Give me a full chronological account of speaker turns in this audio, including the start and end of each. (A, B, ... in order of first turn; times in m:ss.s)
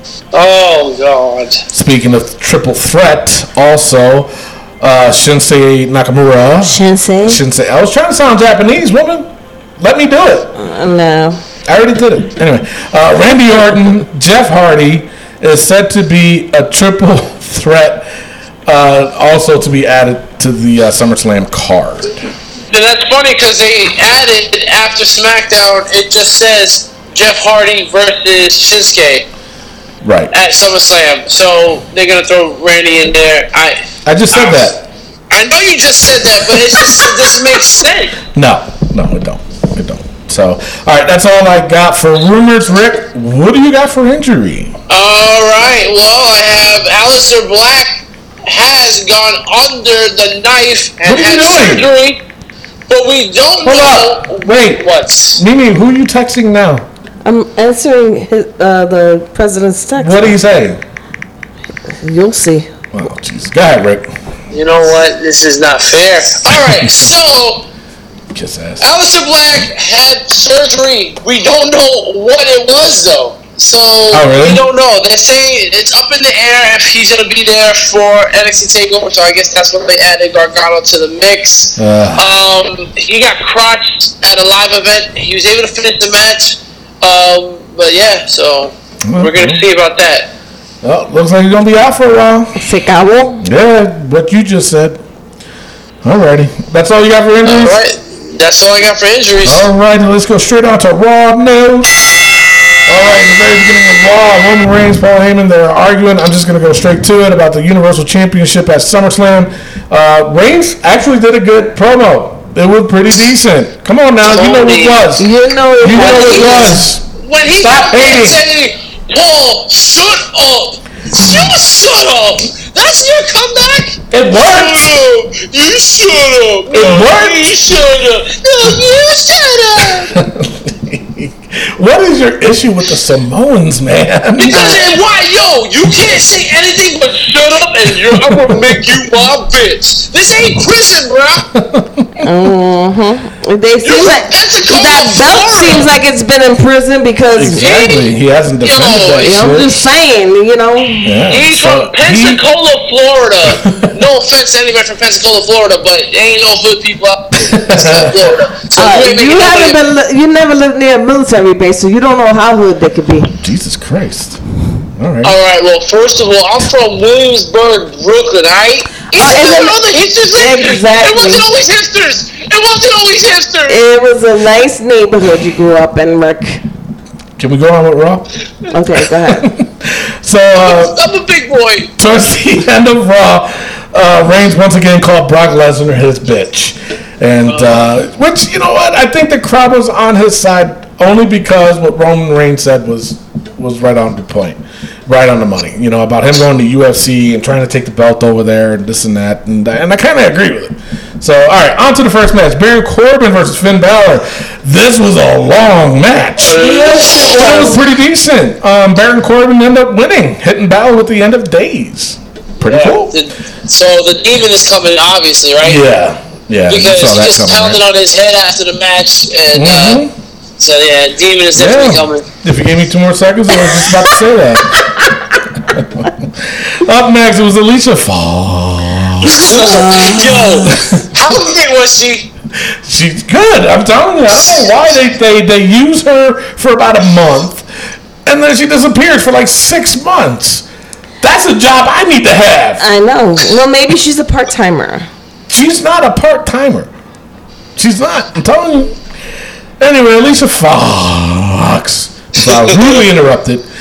0:00.3-0:01.6 A
0:01.7-0:10.5 B
0:06.6-0:07.4 C
0:10.6-0:11.4 C
0:11.7-0:18.1 B
0:18.6-0:22.1 B
0:22.7-0:29.3 A
0:30.0-0:30.3 B
0:30.3-0:33.8 A
0:34.0-0:34.8 B
0:34.3-0:34.7 A
0:35.3-0:38.2 A
0:36.7-0:37.0 B
0:38.3-0:44.7 B
0:44.9-0:52.2 A
0:51.0-0:51.9 B
0:52.9-0:55.4 A
0:53.6-0:56.8 B
0:57.2-1:00.3 C
1:00.0-1:00.8 B
1:02.0-1:02.7 C
1:02.9-1:04.1 B
1:04.5-1:07.6 A
1:06.5-1:07.1 B
1:08.3-1:08.8 B
1:08.8-1:30.3 A
1:14.1-1:14.6 B
1:21.8-1:22.2 B
1:29.0-1:29.6 B
1:30.8-1:32.6 B
1:32.6-1:33.4 C
1:33.4-1:35.0 B
1:36.0-1:37.8 B
1:37.4-1:39.7 A
1:39.4-1:41.9 B
1:42.9-1:55.3 B
1:54.2-1:55.0 A
1:55.2-1:56.8 C
1:55.8-1:57.0 B
1:56.0-2:10.2 A
1:57.6-1:58.4 B
2:04.1-2:05.0 B
2:06.7-2:07.5 B
2:10.1-2:14.8 B
2:14.4-2:21.5 A
2:14.5-2:14.8 C
2:18.0-2:19.0 B
2:21.5-2:22.2 B
2:22.2-2:27.7 C
2:23.8-2:25.9 A
2:27.3-2:29.8 B
2:27.6-2:29.4 A
2:29.2-2:31.2 C
2:31.0-2:32.4 B
2:31.3-2:39.8 A
2:33.6-2:33.9 B
2:37.4-2:38.3 B
2:38.8-2:43.3 C
2:43.4-2:44.4 B
2:45.0-2:45.3 B
2:45.2-2:53.8 A
2:49.1-2:49.8 C
2:50.3-2:51.4 C
2:53.7-2:56.6 C
2:57.4-2:58.3 B
2:58.7-2:59.4 C
2:59.2-3:01.0 B
3:00.6-3:01.9 A
3:02.0-3:26.6 B
3:07.5-3:07.8 A
3:26.4-3:27.8 A
3:26.6-3:27.8 C
3:27.3-3:33.1 B
3:32.6-3:35.8 A
3:35.6-3:37.8 B
3:36.7-3:40.0 A
3:39.5-3:40.1 B
3:40.6-3:42.2 A
3:41.5-3:44.8 B
3:45.7-3:49.7 B
3:49.2-3:52.3 A
3:49.6-3:50.9 C
3:50.6-3:51.0 B
3:52.8-3:57.7 B
3:58.2-4:00.6 B
4:01.2-4:02.8 B
4:02.8-4:05.1 C
4:05.5-4:06.9 B
4:07.8-4:08.9 B
4:09.8-4:13.6 B